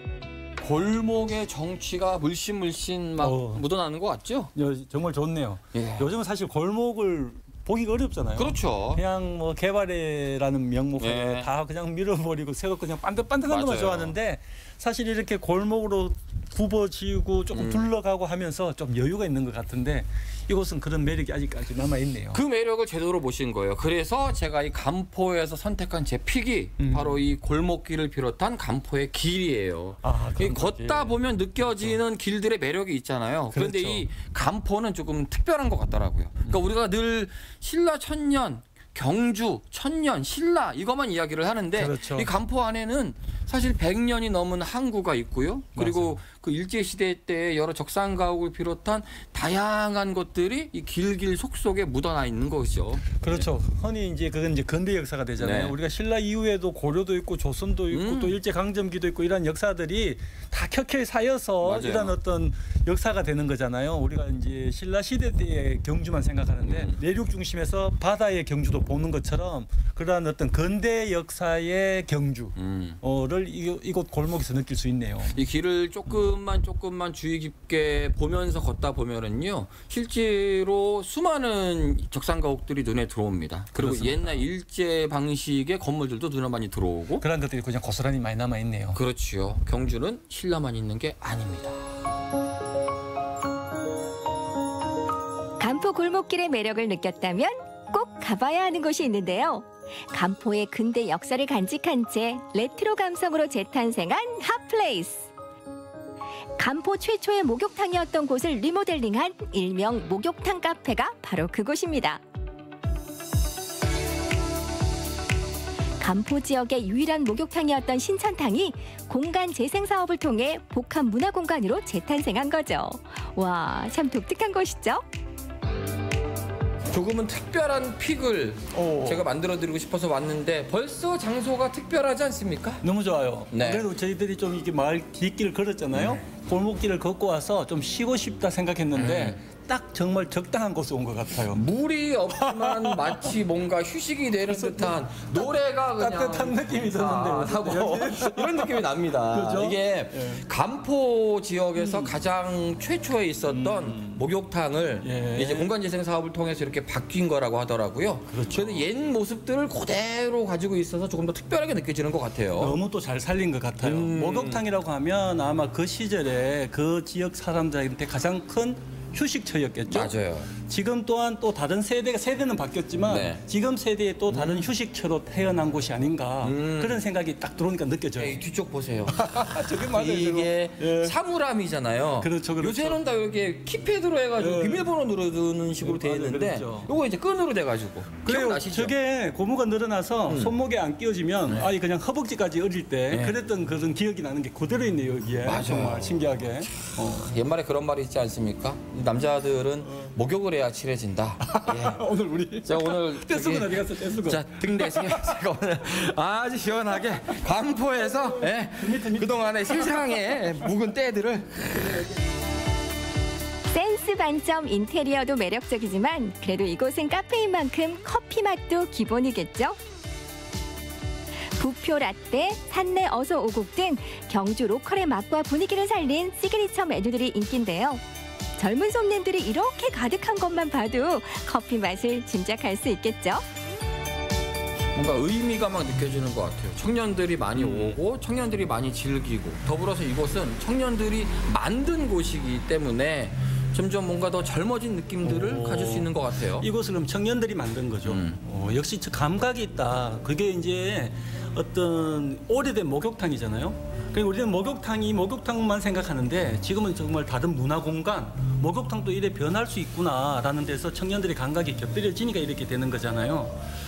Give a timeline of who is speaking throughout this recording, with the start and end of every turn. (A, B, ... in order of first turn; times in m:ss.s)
0:00.6-0:04.5 A
0:03.2-0:03.6 B
0:04.6-0:22.4 B
0:05.7-0:06.1 A
0:08.4-0:09.0 A
0:11.0-0:11.5 A
0:13.5-0:14.2 A
0:17.5-0:17.9 A
0:22.3-0:53.5 A
0:26.8-0:27.2 B
0:30.0-0:32.0 B
0:33.5-0:34.1 B
0:41.8-0:42.3 B
0:45.8-0:46.2 B
0:53.2-1:15.4 B
0:55.4-0:55.8 A
0:57.9-0:58.4 A
1:01.6-1:02.1 A
1:06.6-1:07.0 A
1:12.6-1:13.0 A
1:15.3-1:27.2 A
1:23.8-1:24.4 B
1:27.2-1:29.0 B
1:28.9-1:31.8 A
1:35.6-1:45.3 C
1:46.6-1:52.2 C
1:56.0-2:05.0 C
2:06.9-2:12.8 A
2:08.7-2:09.2 B
2:12.8-2:21.6 B
2:13.5-2:13.9 A
2:19.0-2:19.4 A
2:21.4-2:42.8 A
2:22.4-2:23.0 B
2:24.5-2:30.4 B
2:31.8-2:32.2 B
2:33.5-2:34.2 B
2:35.0-2:35.7 B
2:38.3-2:38.8 B
2:42.6-2:58.4 B
2:43.8-2:44.7 A
2:49.9-2:50.5 A
2:53.0-2:53.4 A
2:54.3-2:54.7 A
2:56.4-2:57.0 A
2:58.2-3:08.9 A
2:59.1-3:01.1 B
3:02.2-3:03.0 B
3:04.4-3:04.9 B
3:05.8-3:06.9 B
3:08.2-3:17.3 B
3:10.3-3:10.6 A
3:11.5-3:11.7 A
3:13.1-3:13.4 A
3:15.4-3:22.0 A
3:21.5-3:25.2 B
3:22.6-3:32.0 A
3:28.8-3:29.9 B
3:33.7-3:39.8 C
3:41.6-3:48.0 C
3:48.6-3:53.4 C
3:55.0-4:06.7 A
3:57.5-3:58.0 B
4:05.2-4:23.6 B
4:08.0-4:08.4 A